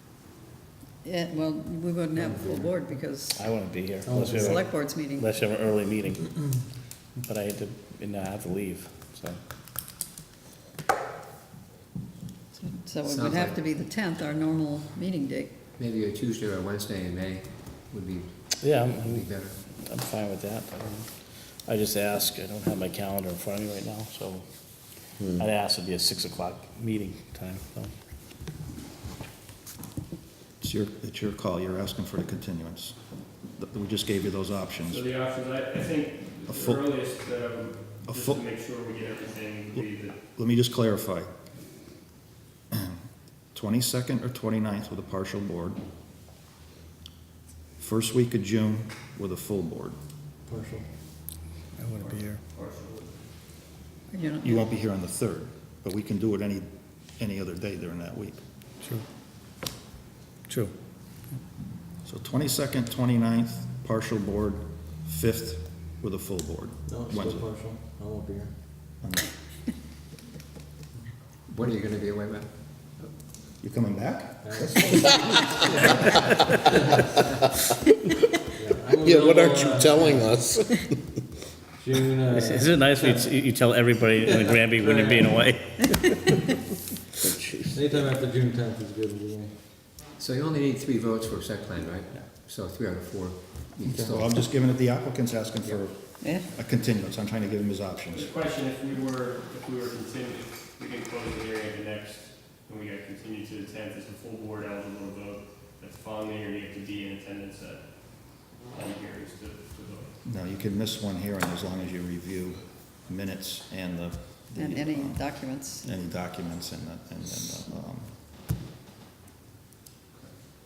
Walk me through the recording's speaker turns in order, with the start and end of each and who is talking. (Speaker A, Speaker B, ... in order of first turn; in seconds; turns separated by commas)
Speaker A: 1.0-3.6, Speaker B: 3.3-6.4, Speaker C: 4.0-4.6, Speaker A: 4.2-5.3, Speaker B: 7.2-9.4, Speaker A: 12.6-15.6, Speaker D: 13.0-13.6, Speaker D: 15.7-19.6, Speaker B: 18.6-21.1, Speaker B: 21.6-24.4, Speaker E: 25.2-25.4, Speaker B: 25.3-27.9, Speaker F: 30.6-33.0, Speaker F: 33.5-35.0, Speaker G: 34.9-40.1, Speaker F: 36.5-36.9, Speaker F: 38.0-38.4, Speaker F: 39.7-41.3, Speaker F: 42.7-45.8, Speaker F: 47.8-50.0, Speaker C: 50.4-50.9, Speaker B: 51.8-52.4, Speaker G: 52.0-53.3, Speaker A: 54.1-54.6, Speaker F: 54.4-58.4, Speaker B: 60.5-60.7, Speaker F: 62.0-67.5, Speaker C: 66.8-68.5, Speaker F: 69.0-69.3, Speaker D: 71.5-72.5, Speaker F: 73.6-75.2, Speaker C: 74.4-74.9, Speaker C: 78.6-80.3, Speaker E: 78.9-81.1, Speaker C: 81.8-83.3, Speaker B: 82.3-86.3, Speaker C: 84.2-85.4, Speaker E: 87.2-87.9, Speaker C: 87.7-89.5, Speaker D: 90.1-94.4, Speaker F: 93.9-98.3, Speaker A: 96.2-96.5, Speaker G: 98.1-110.1, Speaker F: 110.2-118.2, Speaker A: 114.5-115.8